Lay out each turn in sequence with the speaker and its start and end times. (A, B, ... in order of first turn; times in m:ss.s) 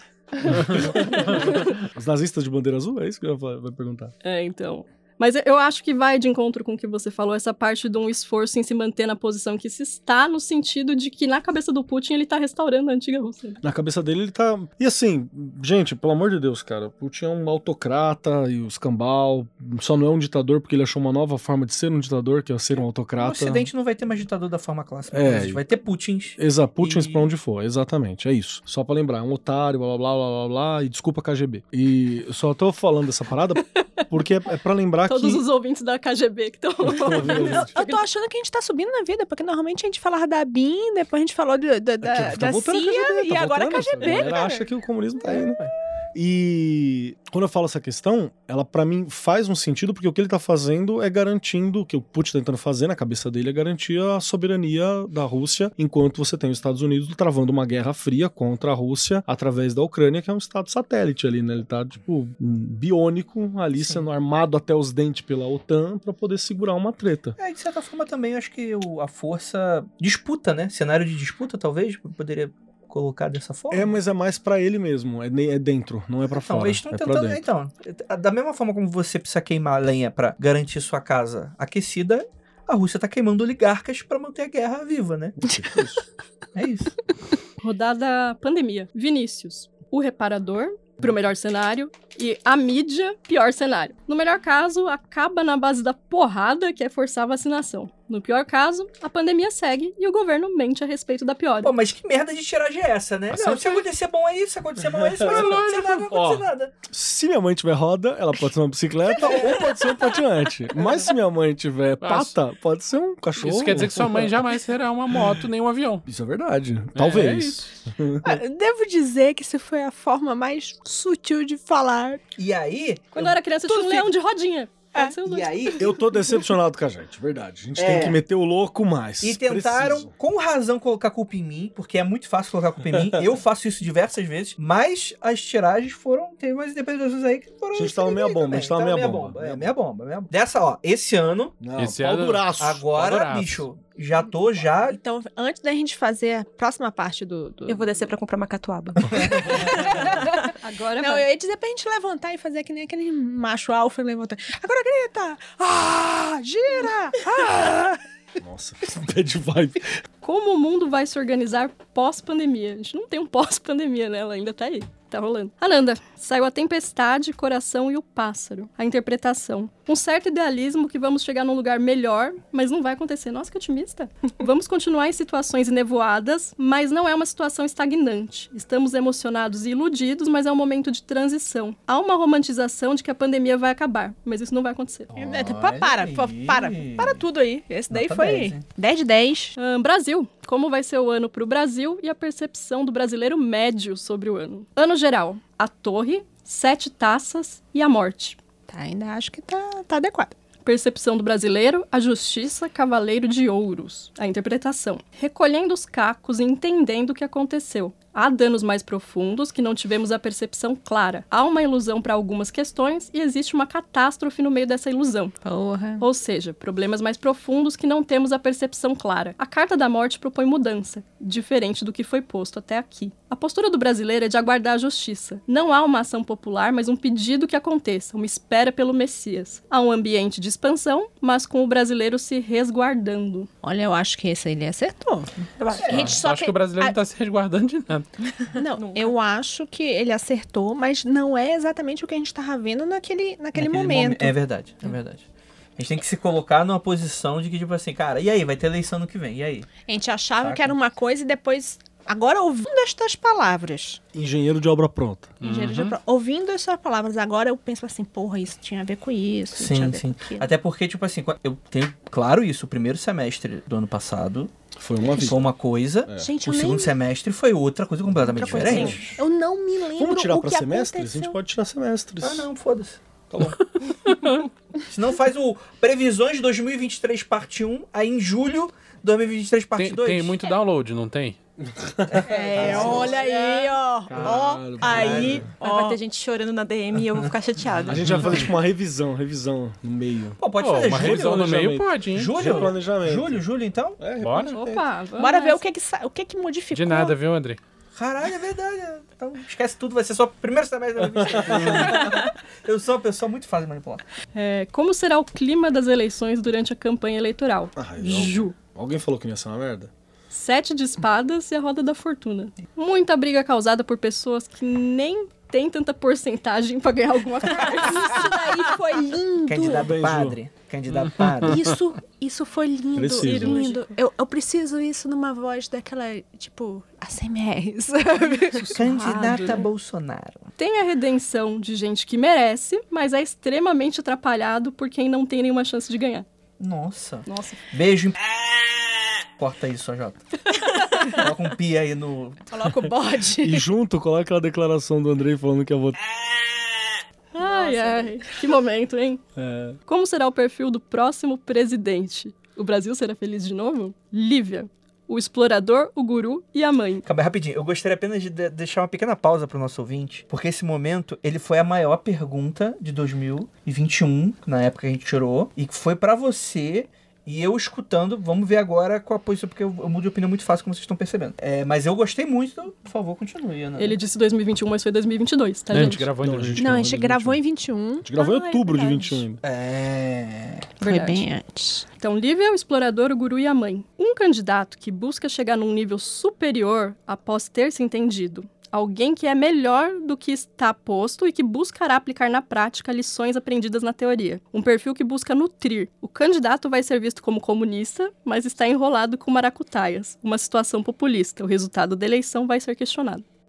0:00.4-0:01.5 A
0:00.4-0:04.1 B
0:00.8-0:01.8 C
0:04.2-0:13.6 C
0:13.6-0:23.7 B
0:23.2-0:27.3 D
0:25.1-0:25.6 B
0:26.4-0:35.4 B
0:35.0-0:38.0 C
0:36.8-0:37.7 B
0:37.3-0:44.7 E
0:42.0-0:45.6 B
0:44.0-0:44.3 D
0:45.2-0:45.7 D
0:46.1-1:07.4 B
1:03.8-1:04.0 D
1:07.4-1:14.0 D
1:13.7-1:17.4 B
1:16.3-1:25.4 D
1:25.4-1:26.0 B
1:26.6-1:27.0 D
1:27.6-1:41.7 C
1:41.6-1:46.7 D
1:43.3-1:43.8 B
1:44.8-1:54.4 B
1:45.2-1:46.0 A
1:52.0-1:52.4 A
1:53.4-1:56.1 A
1:55.1-1:55.4 B
1:56.1-1:58.4 B
1:57.0-1:57.7 A
1:58.2-2:02.2 E
2:02.4-2:03.4 D
2:03.1-2:05.6 C
2:03.6-2:04.1 E
2:05.2-2:06.0 D
2:05.8-2:10.1 B
2:06.2-2:06.4 E
2:07.8-2:08.2 D
2:09.2-2:21.6 D
2:17.7-2:19.7 B
2:21.6-2:22.9 B
2:21.8-2:23.7 A
2:22.3-2:25.0 D
2:24.8-2:28.0 E
2:27.7-2:29.8 F
2:29.6-2:37.9 E
2:30.6-2:31.3 C
2:37.4-2:40.1 B
2:40.2-3:05.1 C
3:05.1-3:07.2 D
3:05.2-3:09.6 E
3:07.9-3:08.6 D
3:09.6-3:18.4 C
3:18.7-3:20.4 E
3:20.6-3:35.4 C
3:35.4-3:36.0 E
3:36.0-3:53.5 C
3:53.6-3:57.0 E
3:55.6-3:56.2 F
3:55.8-3:56.2 D
3:55.9-3:58.2 A
3:58.5-4:04.4 E
3:58.7-3:59.2 F
4:03.5-4:05.2 D
4:05.8-4:09.7 D
4:09.9-4:14.0 E
4:10.4-4:10.7 D
4:14.1-4:15.4 B
4:15.4-4:16.0 A
4:15.4-4:20.5 E
4:19.6-4:24.5 D
4:24.8-4:25.5 B
4:25.0-4:29.2 D
4:26.2-4:27.0 E
4:28.1-4:29.0 B
4:28.4-4:31.4 E
4:28.5-4:29.0 F
4:30.0-4:32.5 B
4:32.2-4:33.0 D
4:33.3-4:33.6 B
4:34.9-4:40.4 D
4:39.8-4:41.4 A
4:41.6-4:43.2 B
4:42.1-4:43.5 D
4:42.3-4:46.0 E
4:44.1-4:45.5 B
4:44.2-4:45.5 D
4:45.0-4:48.4 F
4:47.9-4:53.4 B
4:48.0-4:48.4 A
4:50.4-4:51.6 D
4:50.6-4:52.7 A
4:52.1-4:54.0 D
4:54.0-4:54.8 B
4:54.2-4:54.6 A
4:54.5-4:55.6 C
4:55.2-4:57.2 E
4:56.7-4:57.6 A
4:58.0-5:04.0 D
5:01.0-5:02.0 B
5:04.4-5:08.5 C
5:07.8-5:09.9 B
5:10.3-5:18.5 C
5:17.6-5:19.9 E
5:19.5-5:21.6 D
5:19.6-5:20.4 B
5:21.2-5:21.5 A
5:21.4-5:29.7 E
5:23.0-5:23.7 B
5:23.2-5:23.9 C
5:28.7-5:29.6 C
5:28.7-5:30.5 D
5:30.6-5:36.3 C
5:36.6-5:38.2 D
5:37.3-5:37.6 C
5:39.4-5:40.3 D
5:41.0-5:42.4 D
5:42.5-5:43.7 E
5:43.4-5:46.0 B
5:47.4-5:48.4 E
5:47.4-5:49.2 C
5:49.4-5:49.8 B
5:49.9-5:57.0 C
5:57.0-6:14.0 D
6:13.8-6:16.1 C
6:15.7-6:16.7 A
6:16.2-6:17.4 B
6:16.6-6:19.2 E
6:18.0-6:19.4 B
6:19.4-6:20.7 D
6:20.8-6:21.3 C
6:20.8-6:21.9 E
6:22.0-6:43.2 C